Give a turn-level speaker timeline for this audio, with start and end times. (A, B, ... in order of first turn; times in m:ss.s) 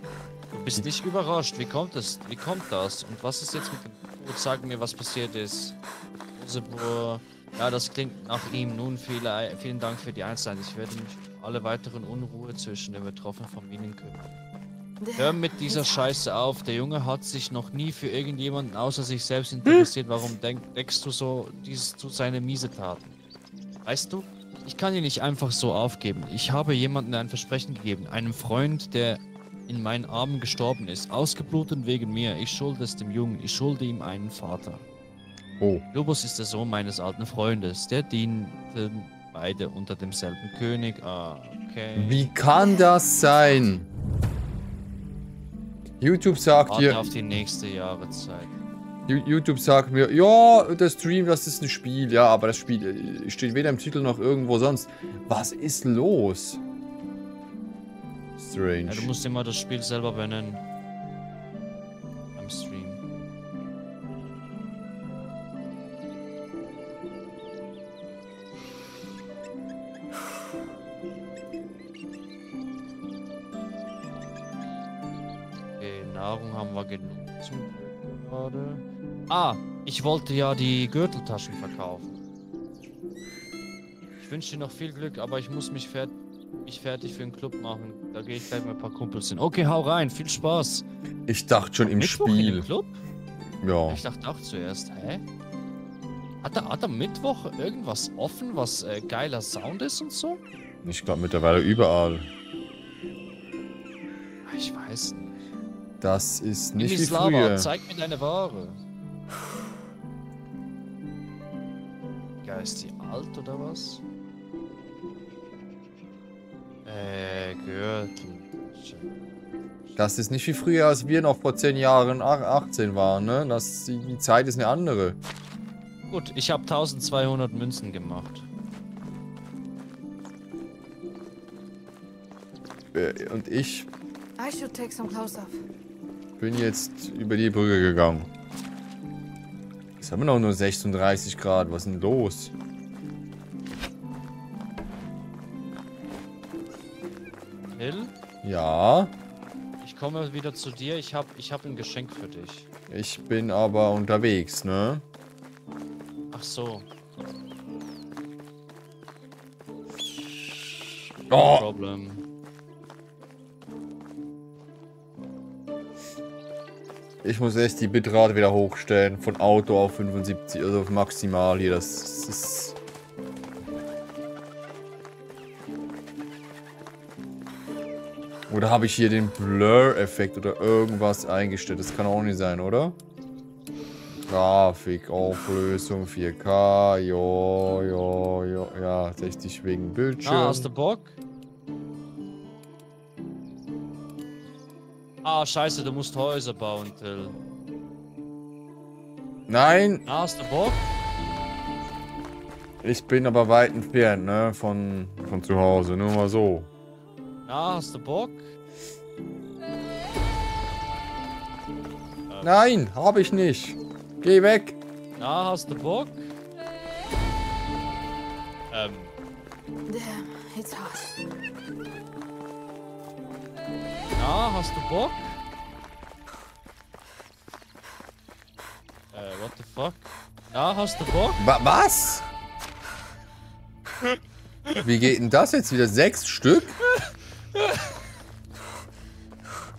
0:00.5-0:05.8 A
0:06.4-0:14.3 A
0:15.0-0:16.2 B
0:15.2-0:23.2 A
0:19.6-0:19.9 C
0:23.8-0:34.8 A
0:35.6-0:35.8 C
0:35.9-0:42.3 A
0:42.0-0:43.9 C
0:42.5-0:43.3 B
0:46.0-0:47.0 C
0:46.7-0:48.5 A
0:49.1-0:56.6 C
0:58.4-0:59.1 C
0:58.9-1:00.6 A
1:02.3-1:03.0 A
1:15.8-1:22.2 A
1:24.2-1:30.8 A
1:31.3-1:32.7 C
1:31.9-1:32.9 A
1:33.6-1:34.0 C
1:33.9-1:35.2 A
1:36.4-1:40.4 A
1:40.8-1:42.3 C
1:44.4-1:45.4 A
1:46.0-1:47.7 C
1:46.8-1:48.8 A
1:52.4-1:54.0 A
1:56.8-2:00.0 A
2:00.0-2:05.2 C
2:06.1-2:08.4 A
2:12.9-2:13.9 C
2:14.4-2:15.6 B
2:16.4-2:18.3 C
2:20.0-2:22.5 C
2:27.7-2:28.1 A
2:28.4-2:29.1 C
2:29.8-2:32.7 A
2:32.9-2:35.0 C
2:36.3-2:36.9 A
2:41.3-2:41.7 C
2:41.3-2:42.2 A
2:47.2-2:52.8 C
2:58.5-3:03.0 C
3:04.2-3:10.7 C
3:10.2-3:11.2 A
3:15.2-3:17.4 A
3:19.5-3:20.0 C
3:20.0-3:20.9 A
3:22.8-3:26.7 C
3:27.4-3:28.5 A
3:32.3-3:32.6 A
3:32.4-3:34.8 C
3:35.2-3:36.3 A
3:38.7-3:39.1 A
3:39.9-3:41.1 B
3:44.2-3:45.4 A
3:49.1-3:51.4 A
3:51.4-3:52.2 C
3:54.8-3:56.8 C
3:56.9-3:57.9 A